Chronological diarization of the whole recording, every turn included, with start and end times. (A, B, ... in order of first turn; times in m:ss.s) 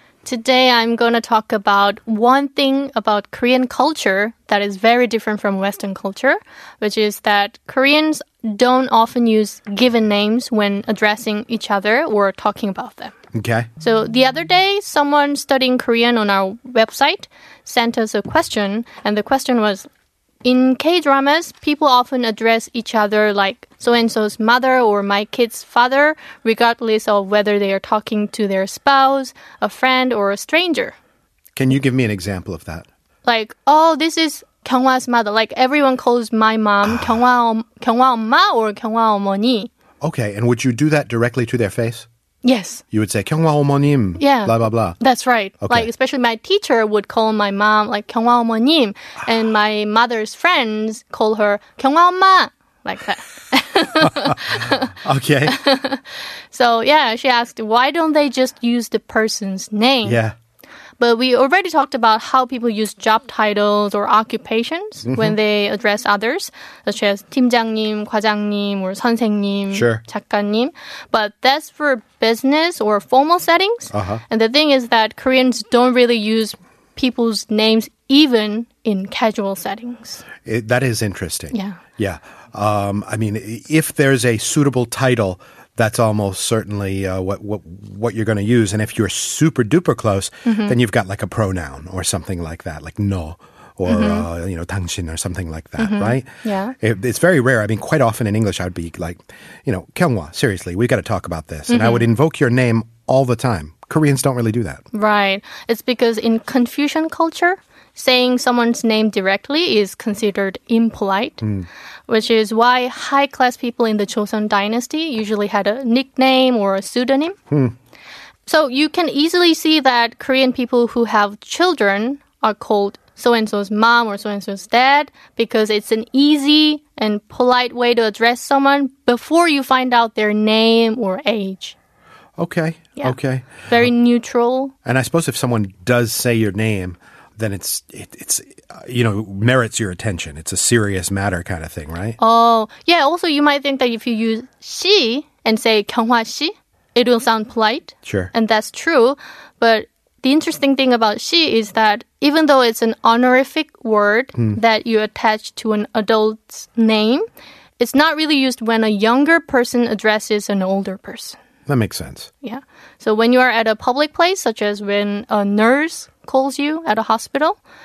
0:00.2-0:13.1 A
0:13.3-0:13.7 B
0:13.8-0:19.9 A
0:20.4-0:31.0 A
0:31.5-0:32.9 B
0:33.2-0:39.7 A
0:40.0-0:42.1 B
0:42.4-0:42.8 A
0:42.9-0:45.0 B
0:44.2-0:54.9 A
0:45.6-0:45.9 B
0:54.5-0:55.6 B
0:55.4-1:00.2 A
1:00.0-1:00.3 B
1:01.0-1:20.2 A
1:05.0-1:05.3 B
1:09.7-1:10.0 B
1:13.9-1:14.2 B
1:20.4-1:44.8 B
1:21.5-1:21.8 A
1:30.4-1:30.8 A
1:33.8-1:34.3 A
1:35.8-1:36.8 A
1:41.7-1:42.1 A
1:44.9-1:51.5 A
1:52.1-1:57.4 A
1:58.4-2:11.8 A
2:12.4-2:13.6 B
2:13.0-2:14.7 A
2:14.8-2:22.2 B
2:22.2-2:37.2 A
2:28.0-2:28.3 B
2:37.8-2:41.4 A
2:41.7-2:42.3 B
2:42.4-2:47.6 A